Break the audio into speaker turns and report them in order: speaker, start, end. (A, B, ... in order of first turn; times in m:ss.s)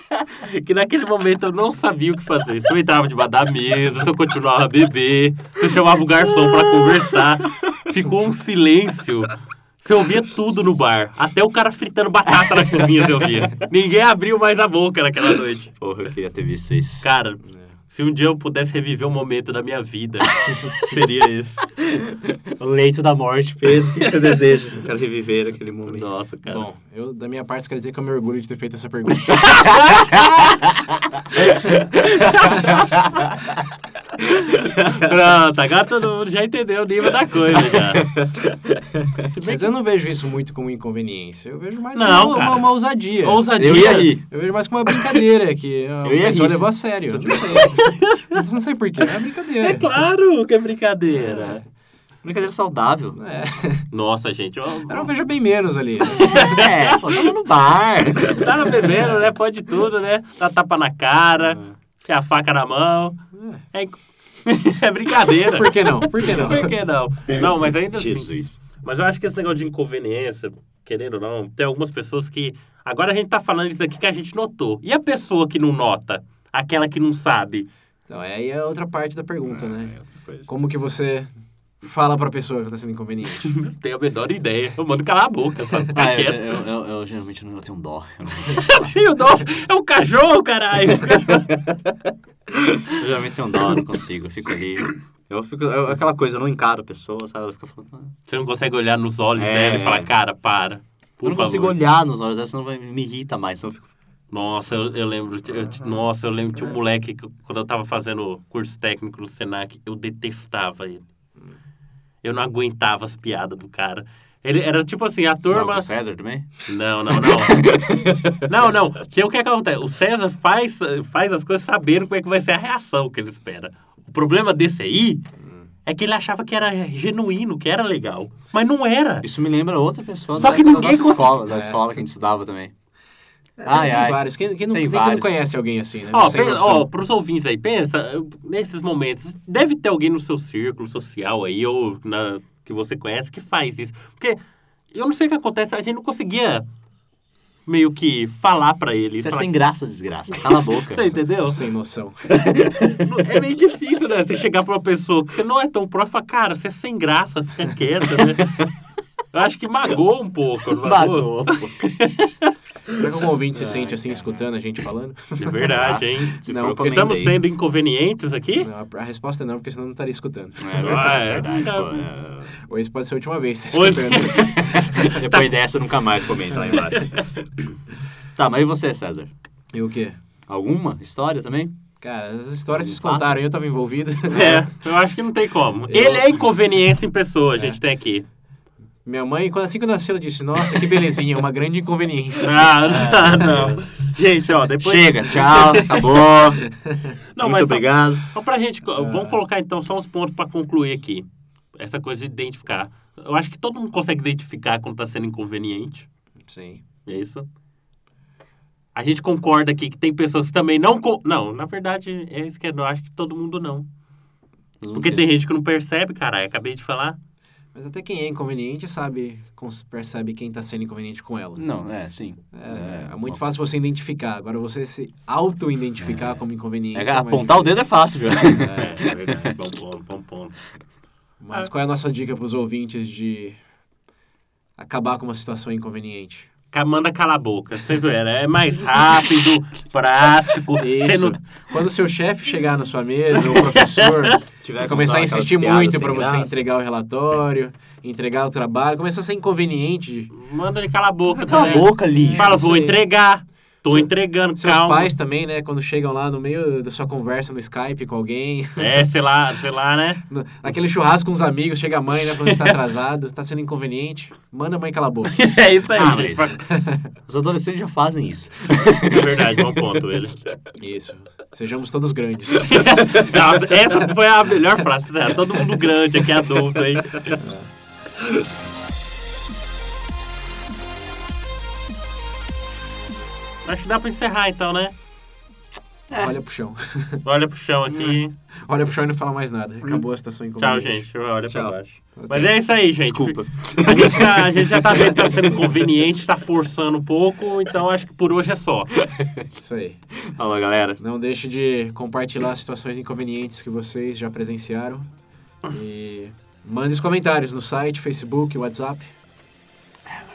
0:00.3-0:15.8 A
0:12.6-0:13.1 B
0:15.8-0:17.0 B
0:17.0-0:21.7 A
0:17.4-0:17.7 C
0:21.8-0:26.1 B
0:25.9-0:26.6 A
0:26.5-0:29.6 C
0:29.4-0:30.1 A
0:34.5-0:38.1 A
0:37.9-0:38.8 B
0:39.3-0:39.7 A
0:39.4-0:49.9 C
0:41.9-0:44.2 A
0:43.5-0:44.2 B
0:46.0-0:47.6 B
0:47.4-0:48.3 A
0:49.6-0:51.6 A
0:51.3-0:51.6 C
0:52.2-0:53.2 B
0:53.2-0:53.9 C
0:53.9-0:55.1 A
0:54.9-0:56.6 C
0:56.1-0:57.3 A
0:56.1-0:59.0 B
0:58.3-1:03.2 A
1:01.5-1:01.7 B
1:03.3-1:03.6 C
1:03.7-1:17.7 A
1:05.5-1:06.7 C
1:07.9-1:08.6 B
1:18.1-1:20.0 C
1:19.6-1:20.5 B
1:20.5-1:21.3 C
1:21.8-1:23.5 C
1:23.3-1:26.6 A
1:25.9-1:28.6 B
1:28.5-1:31.7 A
1:32.5-1:38.1 B
1:38.3-1:41.8 A
1:39.4-1:40.1 B
1:41.2-1:43.9 B
1:44.3-1:51.0 A
1:52.2-1:55.9 A
1:55.5-1:58.5 B
1:56.5-1:57.9 A
1:58.5-2:05.2 A
2:05.4-2:05.7 C
2:05.9-2:09.2 A
2:09.2-2:12.7 B
2:10.4-2:11.4 A
2:11.5-2:11.9 C
2:13.6-2:16.9 C
2:13.6-2:15.4 B
2:16.1-2:24.4 A
2:24.9-2:26.6 A
2:27.7-2:29.5 A
2:29.2-2:31.2 B
2:30.4-2:31.6 A
2:31.4-2:32.3 C
2:32.3-2:33.0 B
2:33.0-2:38.6 A
2:39.3-2:42.5 A
2:40.8-2:41.9 B
2:42.9-2:45.7 C
2:43.5-2:44.3 B
2:45.4-2:48.7 A
2:45.6-2:47.4 B
2:46.4-2:47.3 C
2:48.6-2:51.1 C
2:50.6-2:52.5 B
2:50.8-2:52.1 A
2:52.7-2:55.2 C
2:53.7-2:55.1 A
2:54.4-2:57.2 B
2:56.7-2:57.3 A
2:58.4-2:59.3 B
2:59.7-3:00.2 C
3:00.5-3:01.8 B
3:02.0-3:04.6 C
3:02.8-3:03.4 B
3:04.3-3:08.2 A
3:05.9-3:06.3 C
3:09.0-3:13.5 C
3:12.4-3:16.0 A
3:12.8-3:14.2 B
3:14.8-3:16.7 B
3:17.4-3:26.1 A
3:17.4-3:18.2 B
3:19.0-3:19.4 C
3:26.5-3:26.8 C
3:27.1-3:27.4 A
3:29.0-3:33.9 A
3:34.8-3:35.2 B
3:34.9-3:37.2 A
3:37.7-3:41.7 C
3:41.6-3:43.4 B
3:42.5-3:47.9 C
3:46.0-3:49.5 B
3:48.6-3:50.6 A
3:48.6-3:49.0 C
3:51.4-3:53.6 C
3:54.8-3:56.5 C
3:56.7-4:01.4 A
4:00.8-4:10.3 C
4:03.4-4:04.4 A
4:04.6-4:06.6 B
4:10.3-4:15.1 A
4:11.3-4:12.6 B
4:11.6-4:13.0 C
4:13.9-4:19.0 C
4:18.8-4:20.2 A
4:20.3-4:25.4 C
4:22.3-4:22.8 A
4:25.2-4:26.6 A
4:25.9-4:26.6 B
4:26.6-4:27.0 C
4:27.2-4:29.7 B
4:29.0-4:30.5 A
4:30.8-4:33.1 C
4:32.5-4:37.4 A
4:37.4-4:37.7 C
4:43.6-4:44.9 A
4:46.1-4:47.2 C
4:47.2-4:48.4 A
4:48.7-4:51.0 C
4:50.6-4:58.9 A
4:51.5-4:51.8 B
4:52.2-4:52.5 C
4:53.0-4:55.6 B
4:59.0-4:59.4 B
4:59.6-5:00.0 C
5:00.3-5:01.0 B
5:01.0-5:05.1 C
5:05.6-5:09.1 C